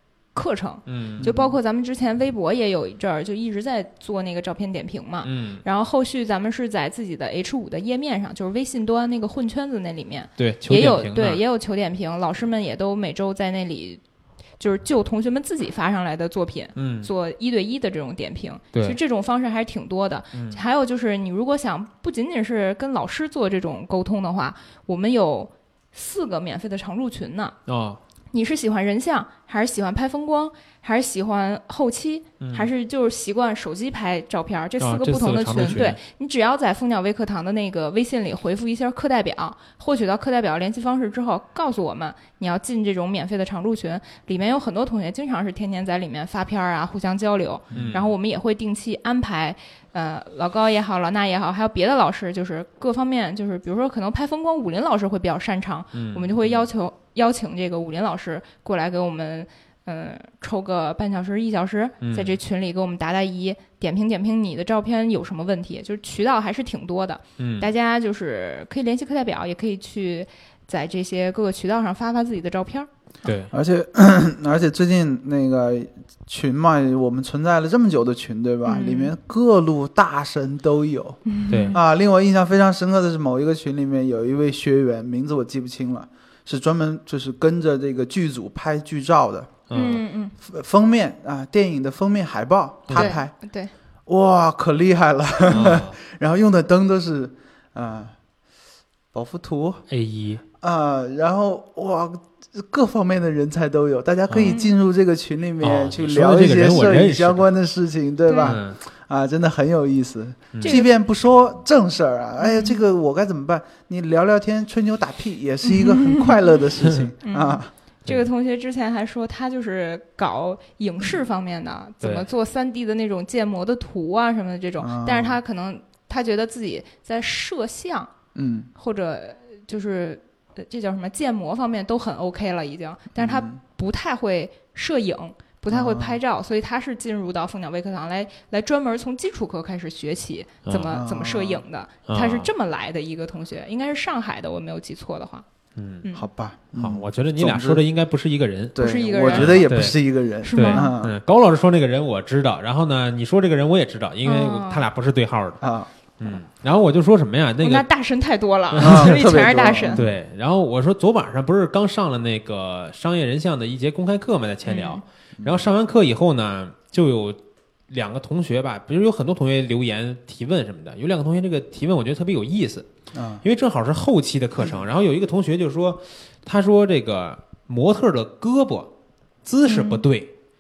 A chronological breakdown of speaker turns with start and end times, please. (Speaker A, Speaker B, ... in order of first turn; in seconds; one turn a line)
Speaker A: 0.3-14.0
Speaker B: 0.9-1.3
Speaker C: 1.2-1.6
Speaker B: 5.2-5.6
Speaker B: 10.4-11.4
Speaker A: 14.6-27.6
Speaker B: 16.8-17.1
Speaker B: 18.7-19.0
Speaker B: 20.3-20.6
Speaker B: 27.7-28.0
Speaker A: 28.3-73.3
Speaker B: 32.4-32.7
Speaker B: 34.8-36.0
Speaker B: 47.7-48.1
Speaker B: 55.9-56.7
Speaker B: 62.0-62.4
Speaker B: 67.4-67.7
Speaker B: 73.2-73.5
Speaker C: 73.5-81.2
Speaker A: 78.7-79.1
Speaker A: 81.3-81.8
Speaker B: 81.5-81.8
Speaker C: 81.7-89.5
Speaker B: 89.7-90.0
Speaker A: 89.7-90.3
Speaker C: 90.4-93.3
Speaker B: 92.9-93.2
Speaker A: 92.9-93.7
Speaker C: 94.1-98.2
Speaker B: 95.5-96.0
Speaker C: 99.1-99.8
Speaker B: 99.9-100.4
Speaker C: 100.6-117.7
Speaker B: 104.3-104.6
Speaker A: 104.4-104.7
Speaker B: 105.6-107.5
Speaker A: 108.3-108.6
Speaker B: 108.4-108.8
Speaker A: 110.6-110.9
Speaker A: 112.4-112.8
Speaker A: 115.6-116.4
Speaker A: 117.2-128.1
Speaker B: 122.0-122.3
Speaker C: 124.8-125.4
Speaker C: 128.3-128.7
Speaker A: 128.8-145.4
Speaker C: 133.2-133.6
Speaker C: 135.7-136.2
Speaker B: 140.7-141.0
Speaker C: 140.9-141.6
Speaker B: 142.1-142.5
Speaker B: 145.8-146.1
Speaker C: 146.1-147.8
Speaker B: 146.8-148.8
Speaker C: 148.8-151.1
Speaker A: 148.8-149.7
Speaker B: 149.3-150.0
Speaker A: 150.4-150.9
Speaker B: 150.5-155.6
Speaker A: 154.2-154.9
Speaker C: 155.6-155.9
Speaker B: 156.2-157.8
Speaker A: 157.6-160.0
Speaker B: 158.7-159.2
Speaker C: 158.8-160.1
Speaker B: 159.9-167.4
Speaker A: 164.7-165.0
Speaker C: 165.4-165.7
Speaker B: 167.9-172.9
Speaker C: 173.1-173.4
Speaker B: 173.4-178.9
Speaker B: 179.4-180.3
Speaker A: 179.7-180.0